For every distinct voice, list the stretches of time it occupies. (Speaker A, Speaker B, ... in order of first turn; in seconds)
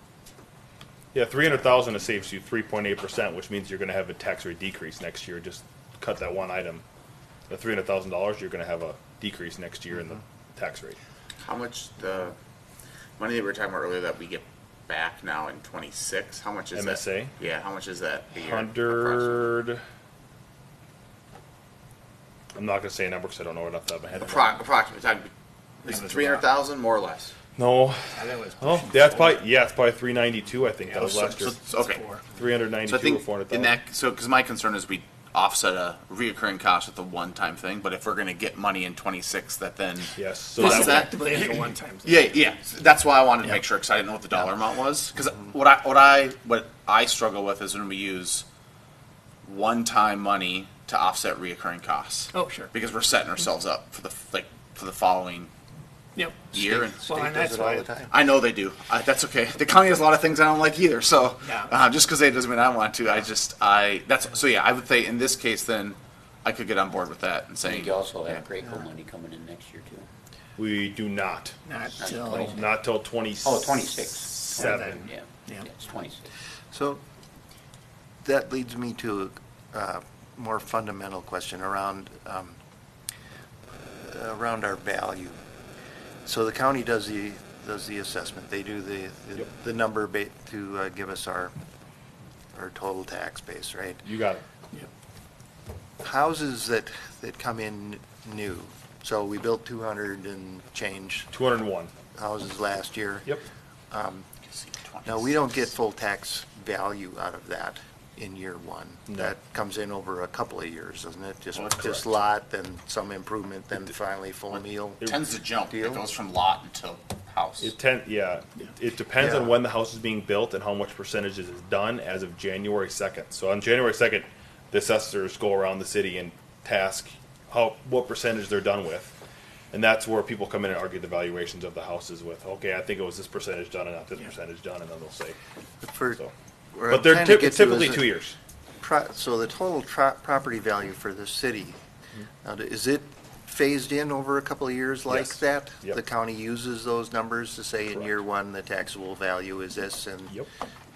Speaker A: 1.1-6.8, 7.5-11.0, 16.7-17.4, 18.3-19.8, 22.5-24.6, 27.6-28.0, 28.6-31.6, 32.3-33.8, 40.1-41.1, 70.6-75.1, 94.0-94.4, 101.3-101.9, 109.1-109.3, 117.6-129.2, 129.7-135.4, 136.9-138.3, 145.1-146.0
Speaker B: 11.4-12.3, 13.2-19.5, 24.1-25.3, 25.8-27.3, 31.4-32.0, 32.8-48.4, 49.4-55.5, 56.5-57.1, 58.1-68.5, 104.5-105.5, 111.5-112.1, 115.0-117.7
Speaker C: 25.9-26.5, 28.1-29.4, 30.8-32.3, 40.6-42.4, 52.3-52.7, 56.1-57.9, 61.4-61.7, 71.7-72.6, 74.5-75.7
Speaker D: 56.5-58.1, 76.7-77.0, 78.2-82.6, 84.0-85.4, 86.2-91.5, 92.5-94.0, 96.0-101.3, 102.1-103.3, 103.9-104.3, 105.0-115.1, 115.6-116.0, 119.2-119.5, 135.8-136.2, 136.7-138.1, 138.8-141.8, 142.4-150.4
Speaker E: 67.6-70.1, 72.0-72.6, 73.4-76.2